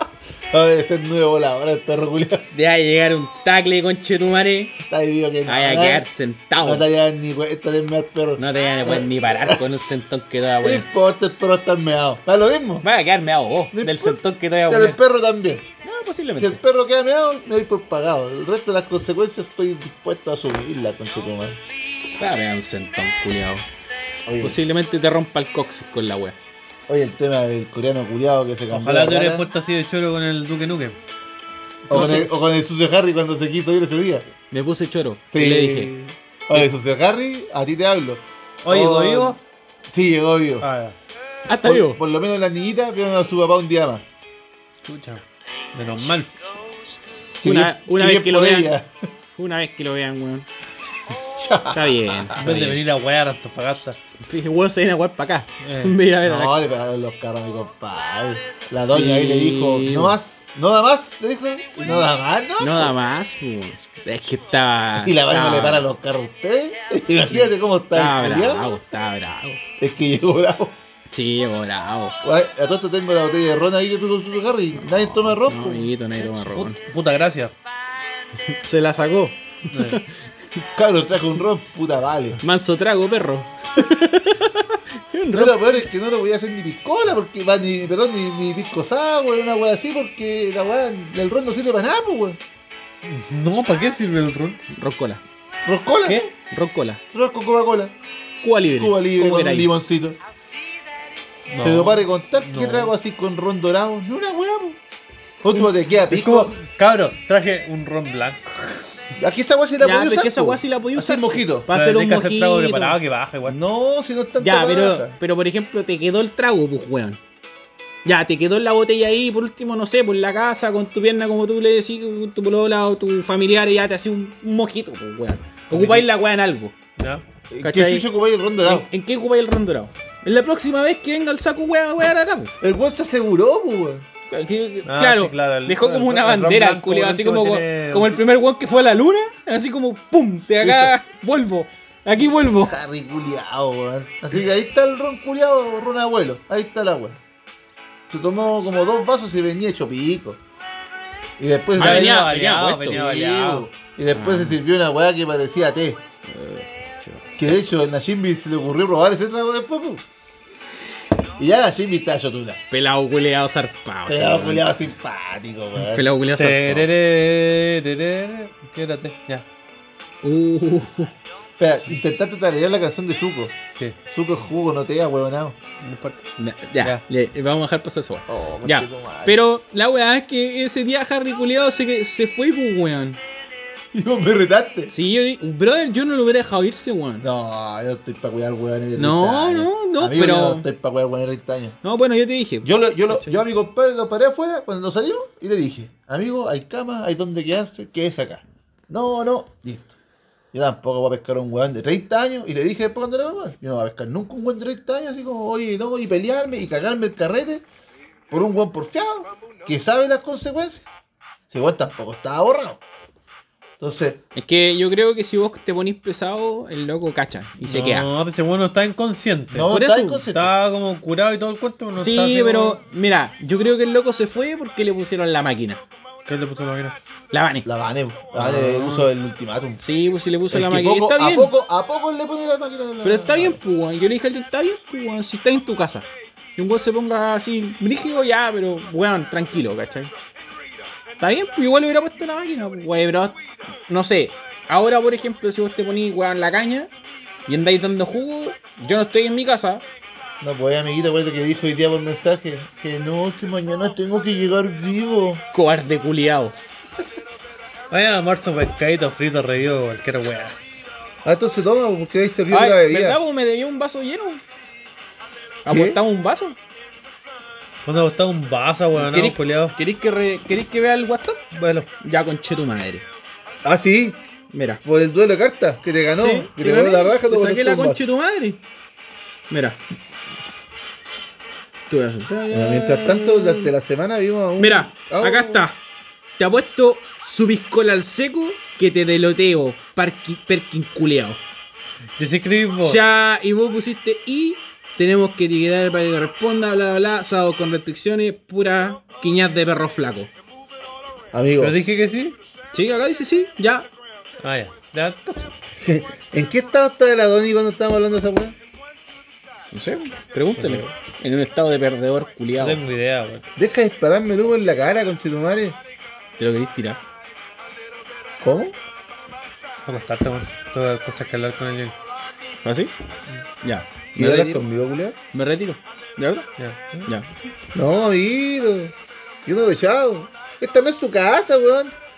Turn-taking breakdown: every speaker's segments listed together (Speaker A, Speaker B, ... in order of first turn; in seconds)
Speaker A: 0.5-2.5, 4.9-6.1, 6.6-9.6, 10.6-12.8, 13.7-15.7, 16.4-21.6, 24.2-24.6, 26.9-29.5, 31.9-34.3, 35.3-39.4, 39.9-40.6, 41.6-44.0, 47.4-48.9, 51.2-52.7, 56.2-62.9, 65.0-68.7, 69.8-70.8, 72.2-75.9, 80.8-82.4, 85.3-92.4, 95.6-96.3, 97.1-97.9, 98.8-100.2, 101.6-104.8, 105.4-106.5, 109.2-111.7, 113.5-115.2, 125.7-126.0, 127.5-128.9, 132.6-134.1, 140.6-140.9, 142.6-147.2, 148.1-150.4, 151.4-152.2, 152.9-156.0, 157.4-160.0, 161.4-162.6, 164.1-166.1, 171.6-173.6, 174.1-175.6, 178.3-179.4, 183.9-184.9, 187.2-191.8, 192.6-199.9, 200.5-207.6, 208.3-210.8, 211.5-212.8, 213.8-214.2, 219.5-220.5, 227.6-229.8, 230.5-233.6, 250.4-255.4, 261.2-263.2, 265.7-266.0, 273.6-274.2, 274.8-278.0, 282.5-285.6, 301.3-301.8, 305.8-308.6, 313.6-315.8, 318.4-318.8, 324.1-325.2, 327.7-328.9, 329.4-331.9
Speaker B: 2.5-4.8, 5.5-6.8, 8.4-10.8, 12.8-14.7, 15.8-16.6, 22.2-23.6, 24.4-26.4, 31.9-32.3, 34.5-35.9, 41.5-42.0, 47.4-48.7, 49.4-50.5, 51.7-52.8, 54.3-56.6, 58.9-60.1, 62.6-65.9, 67.9-69.6, 71.1-72.2, 74.8-76.8, 78.5-80.1, 82.4-84.5, 85.1-85.7, 94.7-95.2, 96.5-97.0, 98.4-99.7, 109.8-113.0, 114.4-117.2, 118.0-126.7, 127.6-128.1, 128.6-132.5, 134.3-142.8, 151.8-153.0, 154.1-154.6, 156.2-157.4, 162.7-164.7, 165.8-166.9, 170.2-171.1, 176.4-183.2, 184.9-187.3, 188.9-190.7, 191.8-193.4, 214.3-218.1, 219.7-220.2, 221.9-225.8, 227.3-227.7, 228.4-229.0, 229.8-231.5, 233.0-240.1, 241.2-243.3, 243.9-246.9, 247.5-249.8, 255.5-256.5, 262.5-264.4, 265.6-266.6, 268.9-271.4, 272.0-273.0, 274.5-274.8, 276.1-278.6, 279.5-279.8, 281.9-283.7, 284.6-285.8, 286.4-291.4, 292.8-300.3, 302.7-303.9, 309.7-312.8, 316.4-317.0, 322.6-322.9, 323.6-323.9, 325.3-326.5
Speaker C: 14.3-15.0, 28.7-31.0, 31.9-32.3, 38.6-39.4, 40.6-41.0, 44.8-46.3, 52.4-54.0, 55.6-55.9, 76.2-77.5, 79.7-80.0, 93.0-94.6, 101.5-102.9, 106.1-108.8, 111.7-113.6, 127.0-127.2, 134.8-138.2, 151.8-153.7, 166.3-169.4, 175.8-176.2, 217.6-219.7, 220.3-222.8, 226.3-226.9, 228.4-229.0, 257.9-260.6, 267.8-269.8, 271.5-271.9, 292.2-293.0, 301.6-302.4, 304.4-305.5, 310.6-310.9, 312.6-313.5, 319.9-321.9, 324.2-324.6, 326.6-327.1